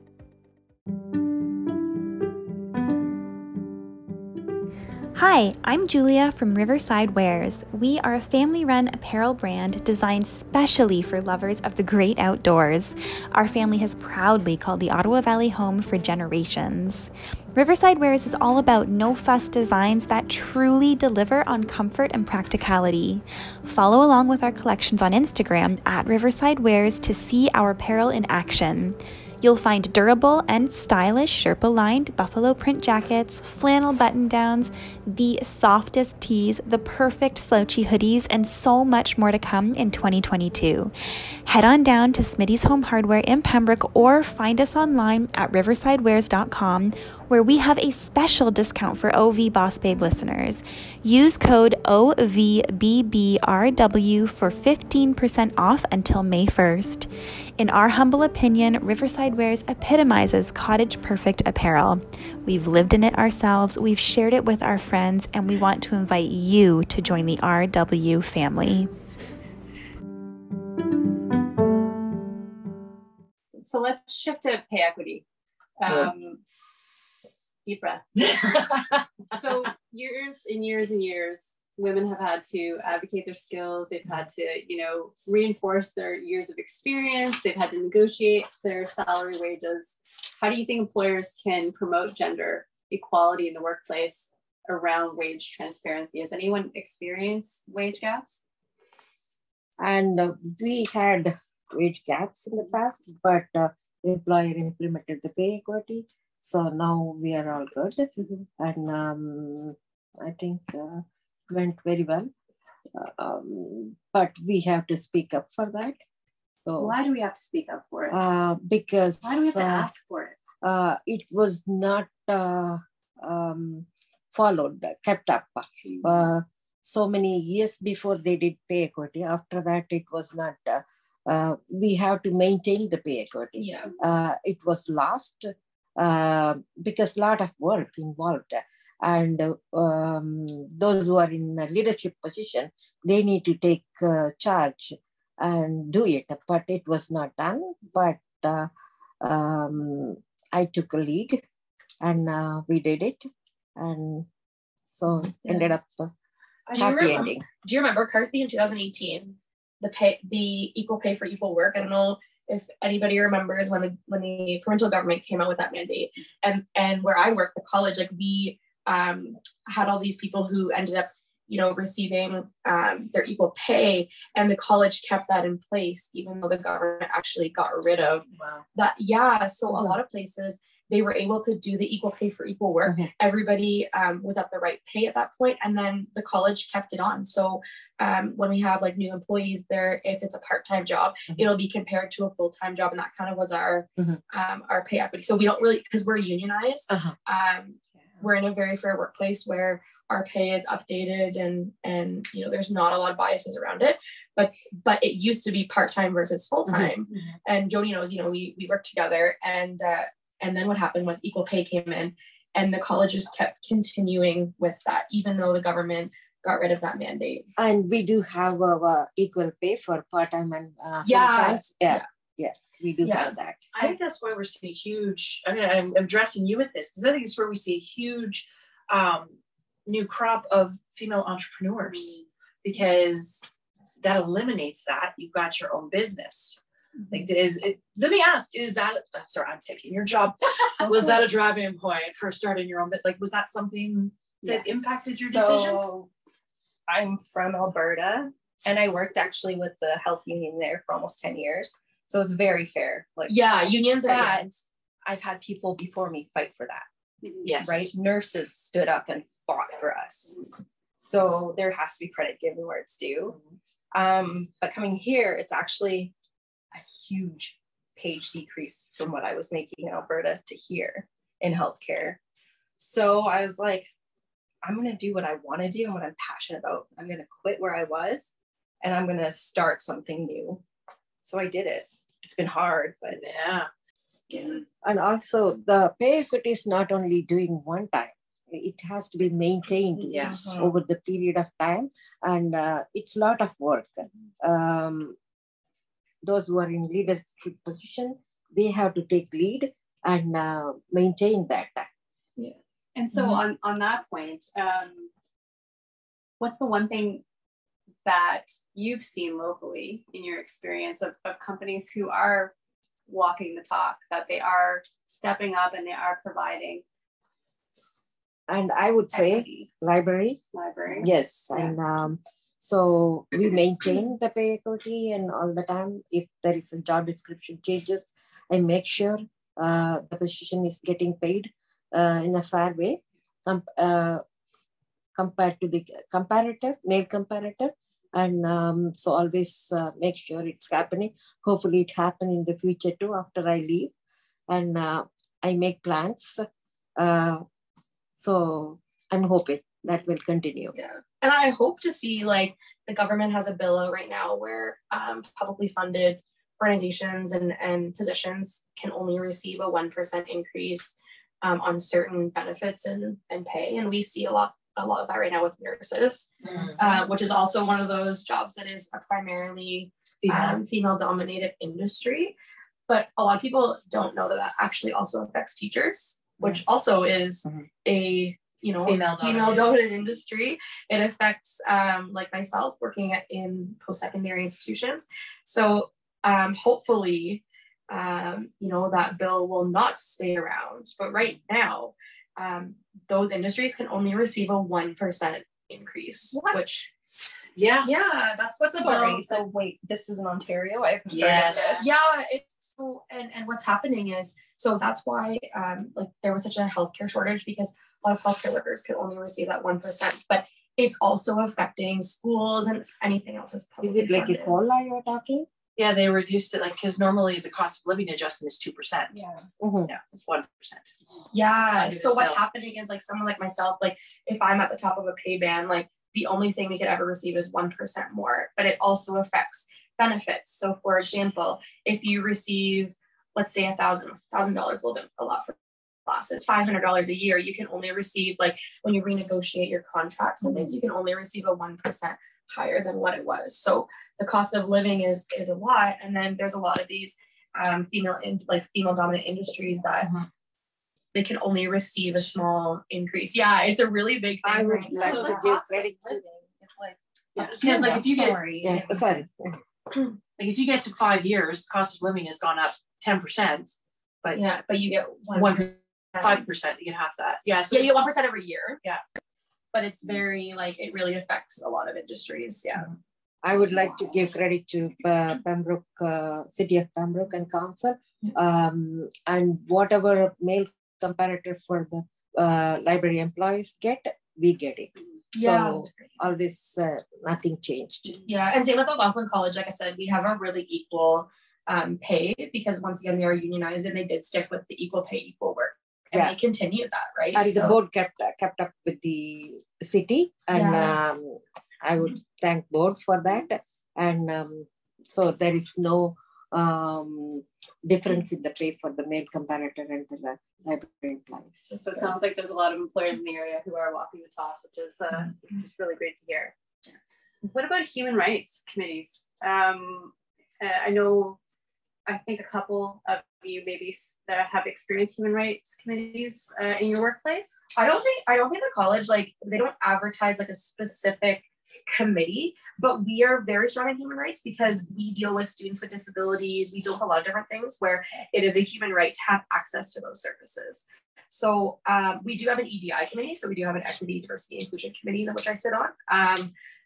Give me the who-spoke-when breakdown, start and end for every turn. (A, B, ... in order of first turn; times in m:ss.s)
0:05.2-0:40.9 A
0:41.5-1:08.9 A
1:13.5-1:15.2 B
1:15.8-1:16.4 B
1:17.6-1:18.8 B
1:18.2-1:19.0 C
1:19.3-1:38.4 B
1:39.8-1:52.3 D
1:52.9-1:56.0 D
1:56.6-1:57.0 D
1:56.8-1:58.2 B
1:58.1-1:59.9 D
1:59.2-2:00.4 B
2:00.6-2:28.7 D
2:13.6-2:13.9 E
2:29.2-2:31.4 D
2:32.0-2:34.3 D
2:34.9-2:36.1 D
2:35.4-2:35.7 E
2:36.7-3:37.5 E
2:36.7-2:37.1 C
2:36.8-2:37.4 D
2:59.7-3:00.0 D
3:26.7-3:26.9 D
3:37.6-3:43.7 D
3:41.0-3:42.0 E
3:43.0-3:44.0 E
3:43.7-3:56.6 C
3:57.1-4:05.9 C
4:04.4-4:06.1 F
4:06.9-4:13.4 F
4:13.3-4:14.4 E
4:14.1-4:16.9 F
4:17.4-4:20.4 F
4:17.4-4:17.9 C
4:21.0-4:23.4 F
4:23.9-4:26.1 F
4:26.7-4:32.2 F
4:32.8-4:33.9 F
4:34.6-4:40.6 F
4:41.2-4:43.3 F
4:43.1-4:43.7 C
4:44.8-4:55.2 D
4:50.1-4:50.5 C
4:50.1-4:50.7 F
4:56.2-5:01.9 D
5:03.0-5:05.1 B
5:06.4-5:07.2 B
5:08.0-5:12.5 B
5:13.1-5:16.8 B
5:18.5-5:20.4 D
5:19.1-5:19.7 E
5:20.5-5:21.1 B
5:21.0-5:34.2 D
5:35.2-5:43.9 D
5:44.5-5:47.4 D
5:48.2-5:50.8 D
5:50.8-6:12.4 E
6:06.4-6:06.8 C
6:10.2-6:10.6 C
6:12.9-6:36.9 E
6:18.8-6:19.8 C
6:37.6-6:39.1 C
6:37.8-6:39.5 E
6:38.8-6:41.9 F
6:41.1-6:42.0 C
6:41.6-6:54.6 E
6:53.8-6:55.5 D
6:55.8-6:59.2 C
6:59.1-6:59.5 F
6:59.6-6:59.9 D
6:59.8-7:00.9 C
7:01.3-7:30.1 E
7:01.7-7:02.4 C
7:31.1-7:36.0 E
7:34.4-7:36.4 D
7:35.0-7:35.7 C
7:36.5-7:39.0 F
7:37.4-7:38.4 E
7:37.5-7:38.4 C
7:38.6-7:39.6 D
7:40.4-7:44.4 C
7:44.4-7:46.7 E
7:45.3-7:48.2 C
7:47.7-7:48.8 E
7:49.7-7:52.9 E
7:53.4-8:08.2 D
8:05.4-8:06.1 E
8:08.2-8:17.8 E
8:17.3-8:32.3 D
8:20.5-8:21.0 E
8:31.7-8:36.6 B
8:37.4-8:41.4 B
8:42.1-8:47.6 B
8:47.8-9:06.5 E